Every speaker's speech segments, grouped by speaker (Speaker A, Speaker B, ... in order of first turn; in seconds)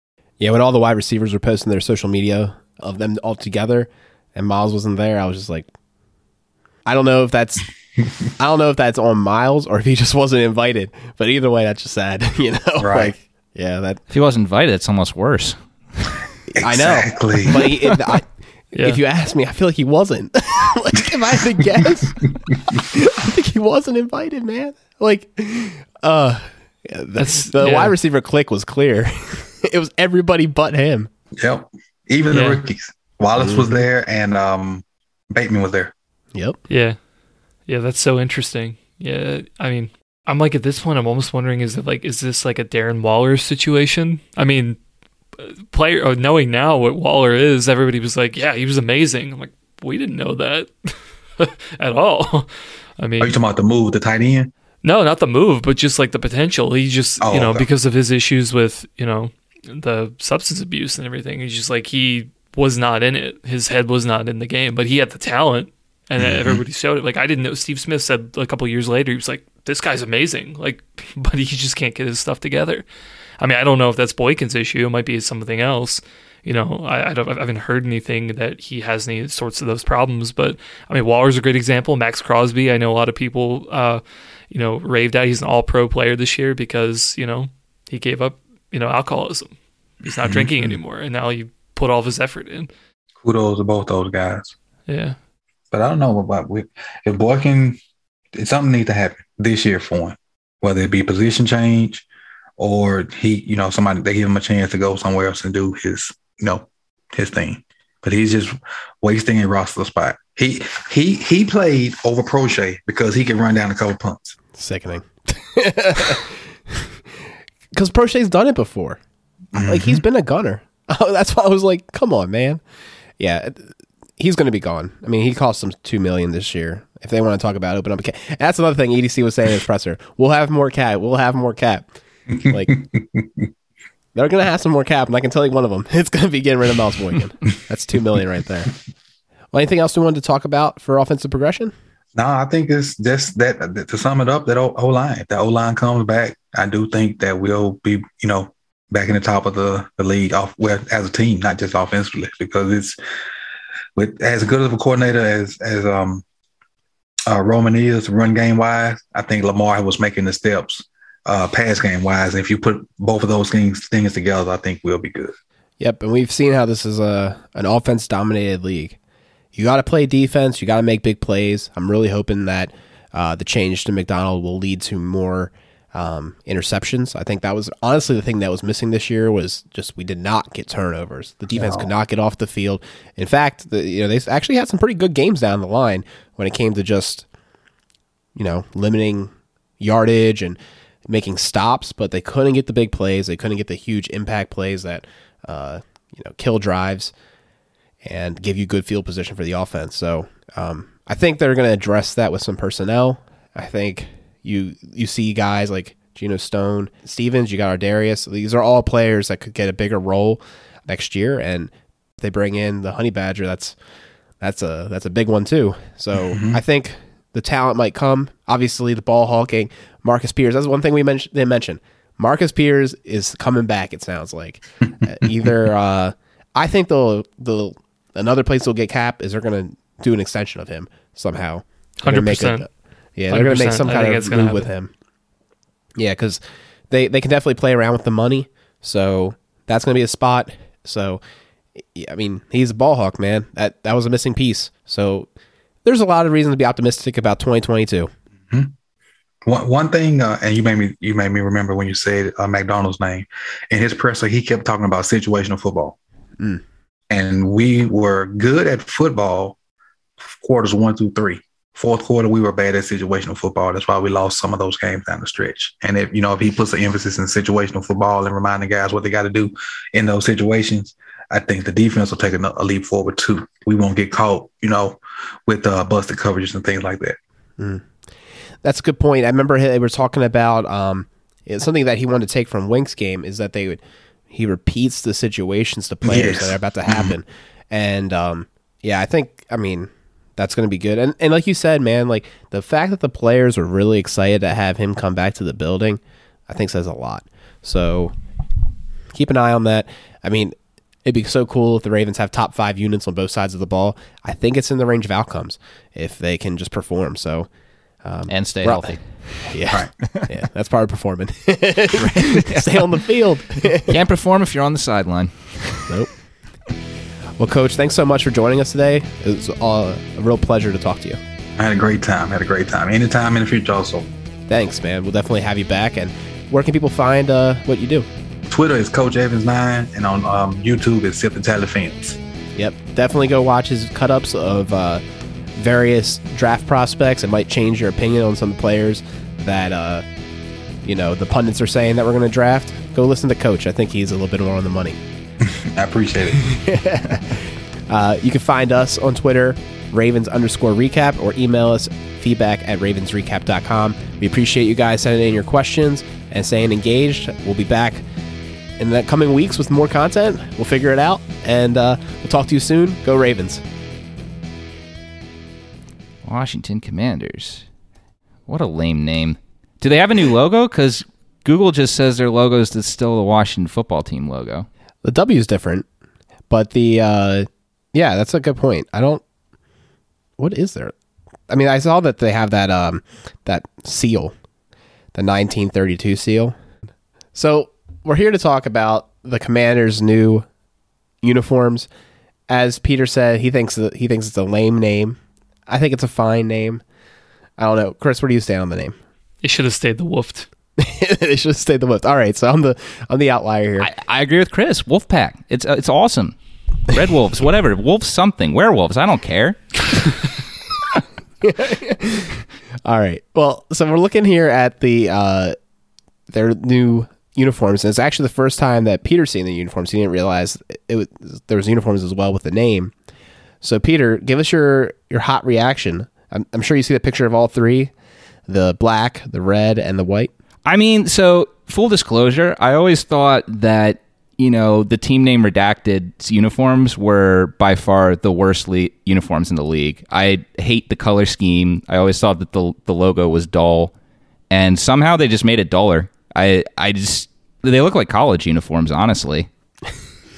Speaker A: 0.4-5.7, 6.8-7.7, 8.4-14.0, 16.6-31.1, 33.4-33.8, 114.5-117.2, 117.7-119.0, 119.7-122.6, 123.2-131.9, 132.4-132.7, 134.1-138.7, 139.5-141.7, 165.8-169.0, 169.5-187.2, 188.3-197.1, 198.0-213.8, 214.4-234.9, 236.0-241.2, 241.8-245.3, 245.8-248.1, 277.6-277.9, 278.6-298.1, 299.1-307.5, 308.0-313.9, 317.4-321.2, 324.5-328.1, 332.6-335.0, 335.6-340.0, 340.8-345.0, 346.4-358.0, 358.8-363.6, 375.0-375.9, 376.5-379.2, 380.4-380.9, 381.5-384.3, 385.1-386.6, 387.3-390.5, 391.2-391.9, 392.5-396.8, 397.6-399.0, 400.8-403.9, 411.4-415.6, 416.3-422.9, 423.6-427.9, 428.5-430.3
Speaker B: 12.8-13.1, 16.5-17.7, 31.4-35.9, 53.2-54.5, 57.2-57.7, 66.2-66.6, 90.2-90.5, 93.2-94.5, 95.7-97.8, 98.3-102.0, 102.6-114.4, 119.5-120.0, 132.7-133.2, 142.1-153.0, 153.9-156.2, 157.3-165.3, 181.5-181.9, 216.3-216.6, 249.4-256.0, 257.1-259.6, 260.2-277.2, 286.0-287.1, 321.6-324.1, 328.5-332.2, 345.5-346.5
Speaker C: 14.1-15.6, 308.3-309.0, 311.9-312.9, 313.9-315.9, 366.2-367.6, 368.5-374.7, 403.8-406.4, 406.9-410.1, 430.6-443.9, 444.5-449.5
Speaker D: 18.7-19.0, 27.2-27.9, 32.3-32.6, 36.7-37.0, 37.6-44.8, 45.4-53.4, 54.8-72.8, 73.4-92.7, 94.9-95.2, 232.0-232.7, 233.3-234.7, 399.4-400.5